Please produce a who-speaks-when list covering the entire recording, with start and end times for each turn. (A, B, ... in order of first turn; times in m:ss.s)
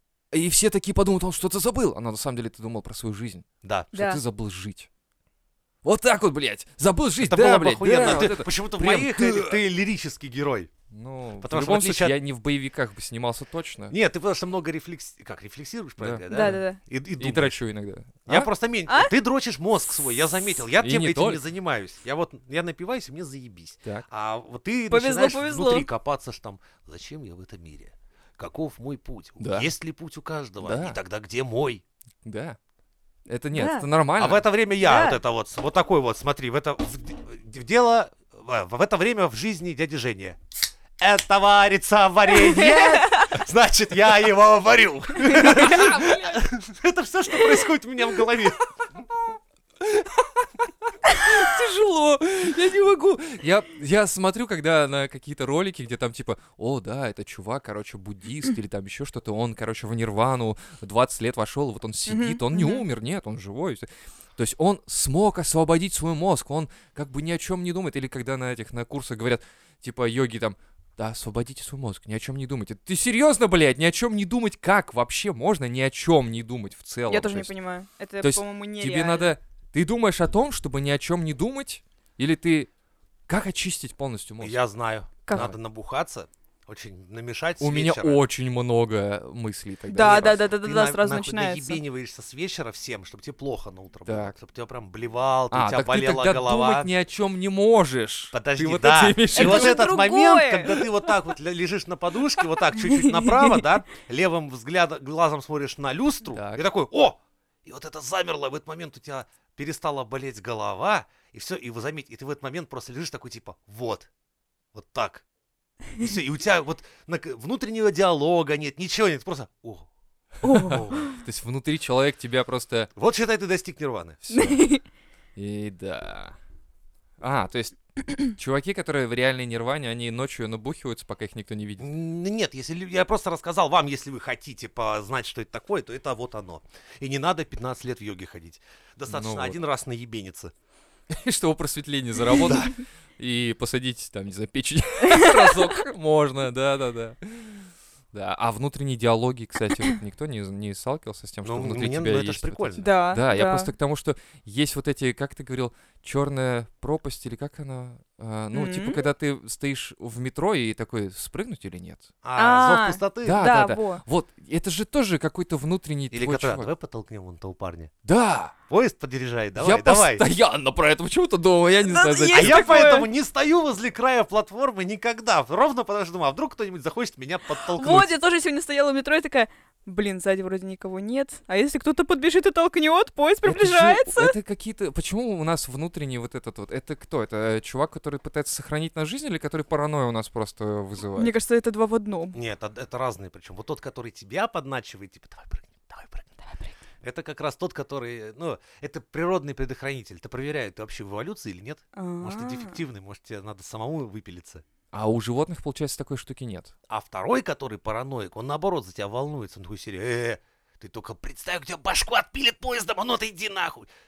0:00.3-0:04.9 A
0:03.6-0:03.9 B
0:03.9-0:04.2 C
0:05.8-0:09.6 A
0:07.2-0:10.7 B
0:10.9-0:14.0 A
0:11.4-0:12.2 B
0:13.9-0:17.6 B
0:16.0-0:16.6 A
0:16.3-0:16.8 C
0:17.2-0:18.5 A
0:18.2-0:31.8 B
0:20.8-0:21.4 A
0:24.9-0:25.9 C
0:29.4-0:29.7 A
0:30.6-0:31.0 A
0:32.2-0:32.6 A
0:33.3-0:34.4 A
0:33.5-0:33.9 C
0:34.2-0:40.4 B
0:34.8-0:35.2 C
0:41.0-0:48.6 B
0:42.4-0:43.2 C
0:45.4-0:46.4 A
0:45.4-0:45.9 C
0:49.8-1:17.5 A
1:02.1-1:02.8 C
1:17.1-1:19.3 C
1:18.2-1:22.7 A
1:23.3-1:24.6 A
1:24.4-1:28.2 B
1:25.3-1:25.6 A
1:27.6-1:30.4 A
1:29.9-1:31.8 C
1:30.1-1:36.9 B
1:34.0-1:34.3 A
1:35.5-1:39.8 A
1:38.3-1:54.1 B
1:39.3-1:40.9 C
1:42.8-1:43.4 C
1:46.3-1:46.6 A
1:54.7-1:55.2 B
1:56.0-1:59.9 B
2:00.4-2:02.9 A
2:00.4-2:01.1 C
2:00.6-2:01.0 B
2:03.0-2:04.2 B
2:04.3-2:04.6 A
2:04.3-2:04.8 C
2:05.4-2:06.4 A
2:07.2-2:11.9 A
2:11.8-2:20.5 B
2:19.1-2:19.6 A
2:21.1-2:42.1 A
2:22.3-2:22.7 B
2:25.1-2:25.6 C
2:31.4-2:32.8 B
2:32.8-2:33.7 C
2:38.5-2:39.0 C
2:42.2-2:43.4 B
2:42.4-2:44.0 C
2:43.2-2:46.7 A
2:46.1-2:47.9 B
2:48.0-2:48.5 A
2:48.7-2:50.2 B
2:49.6-2:52.9 A
2:51.8-2:53.1 C
2:52.3-2:58.1 B
2:57.6-3:04.3 C
3:03.4-3:11.3 A
3:11.2-3:12.4 C
3:12.3-3:16.4 B
3:17.0-3:24.6 B
3:22.0-3:22.8 C
3:24.9-3:26.7 A
3:26.9-3:33.9 B